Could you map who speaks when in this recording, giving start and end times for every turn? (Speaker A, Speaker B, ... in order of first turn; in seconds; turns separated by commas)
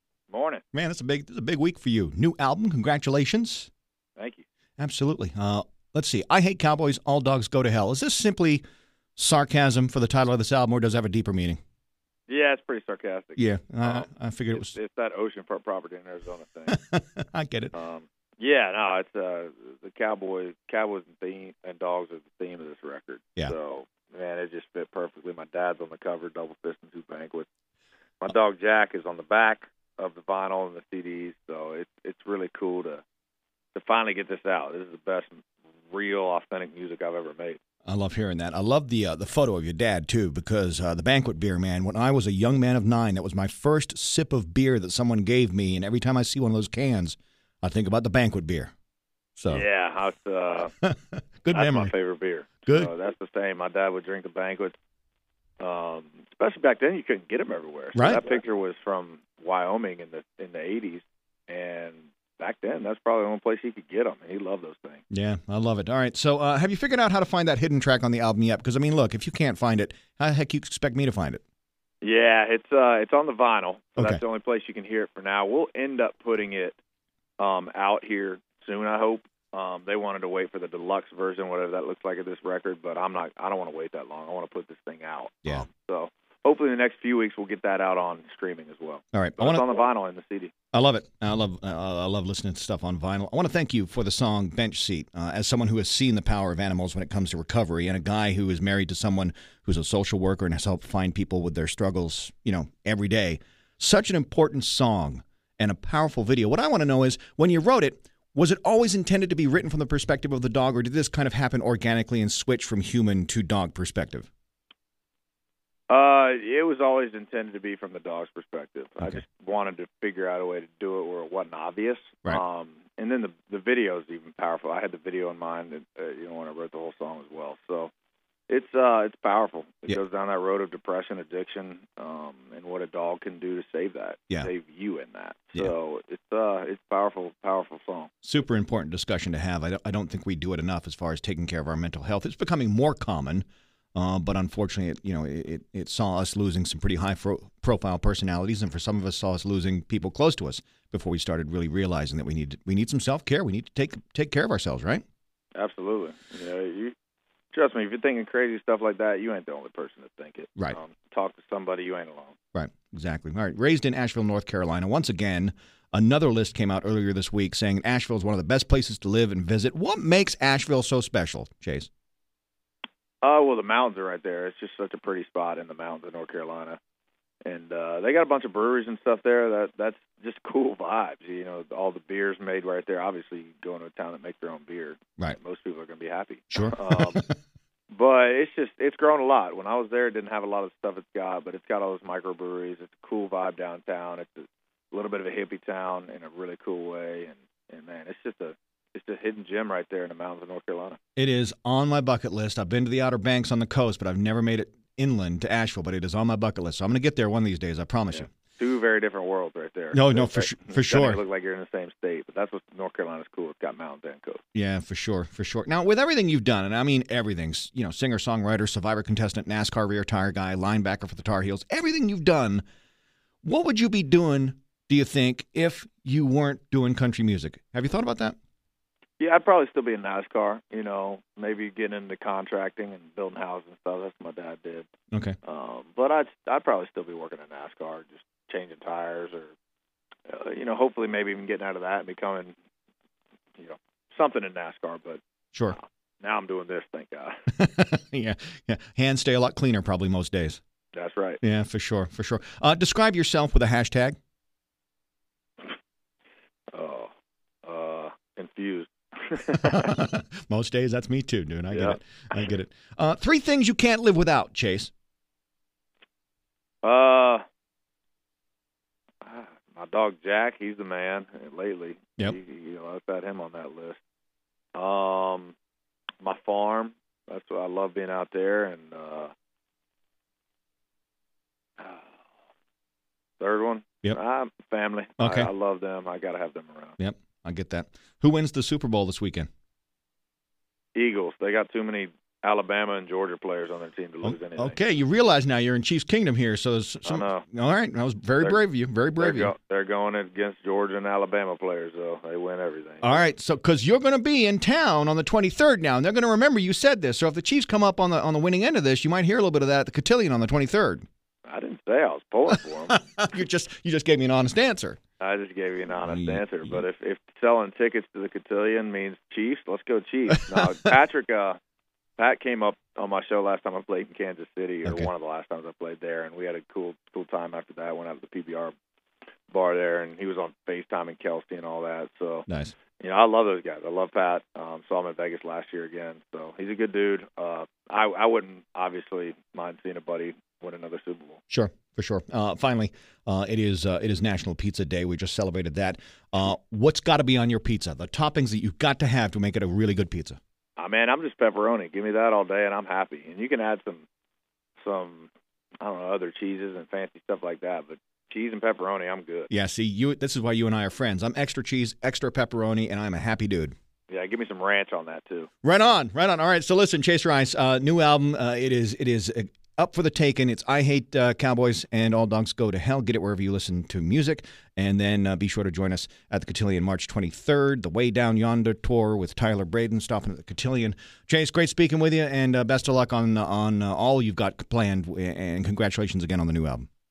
Speaker A: 0.3-0.6, Speaker B: 0.7-3.7, Speaker A: 4.2-4.5, Speaker B: 4.8-8.6, Speaker B: 9.2-11.6, Speaker A: 12.3-16.8, Speaker B: 13.4-14.8, Speaker B: 16.7-17.7, Speaker A: 17.7-27.5, Speaker A: 28.2-33.0, Speaker A: 33.8-37.6, Speaker B: 37.9-48.7, Speaker B: 49.4-49.6, Speaker A: 49.5-50.7, Speaker B: 50.8-51.9, Speaker A: 51.5-54.8, Speaker A: 55.6-65.0, Speaker B: 58.0-58.3, Speaker B: 65.1-71.4, Speaker A: 72.0-76.8, Speaker B: 74.0-74.2, Speaker A: 77.4-90.5, Speaker B: 89.1-89.7, Speaker B: 90.7-114.3, Speaker A: 115.9-127.9, Speaker A: 128.5-138.1, Speaker B: 138.2-155.0, Speaker A: 155.6-156.9, Speaker A: 157.5-162.4, Speaker B: 162.5-171.9, Speaker A: 173.2-176.8, Speaker A: 177.4-187.3, Speaker B: 186.5-187.3, Speaker A: 187.9-201.0, Speaker B: 201.2-208.3, Speaker A: 208.1-214.4, Speaker B: 209.9-211.2, Speaker B: 214.6-222.6, Speaker B: 223.4-228.4, Speaker A: 229.2-234.9, Speaker A: 235.4-239.5, Speaker A: 240.3-242.5, Speaker A: 243.6-245.2, Speaker A: 245.7-247.4, Speaker B: 247.6-250.6, Speaker A: 250.9-251.4, Speaker B: 251.4-254.2, Speaker A: 256.7-257.1, Speaker A: 257.6-259.9, Speaker B: 259.5-264.9, Speaker A: 261.7-262.0, Speaker A: 266.8-267.4, Speaker A: 269.2-274.0, Speaker A: 274.8-275.6, Speaker A: 276.2-279.3, Speaker A: 281.8-282.1, Speaker A: 283.4-287.0, Speaker B: 285.2-285.5, Speaker B: 287.0-289.5, Speaker A: 290.9-294.8, Speaker B: 294.2-299.5, Speaker A: 297.1-297.5, Speaker A: 299.2-303.2, Speaker B: 303.0-311.1, Speaker A: 311.5-313.0, Speaker B: 312.9-315.0, Speaker A: 315.2-321.6, Speaker B: 316.1-316.4, Speaker A: 322.2-328.7, Speaker B: 324.9-325.1, Speaker A: 329.5-341.4, Speaker B: 332.5-332.8, Speaker B: 341.5-350.4, Speaker A: 350.8-354.1, Speaker A: 354.8-359.5, Speaker B: 359.5-363.7, Speaker A: 364.1-365.5, Speaker B: 365.6-386.9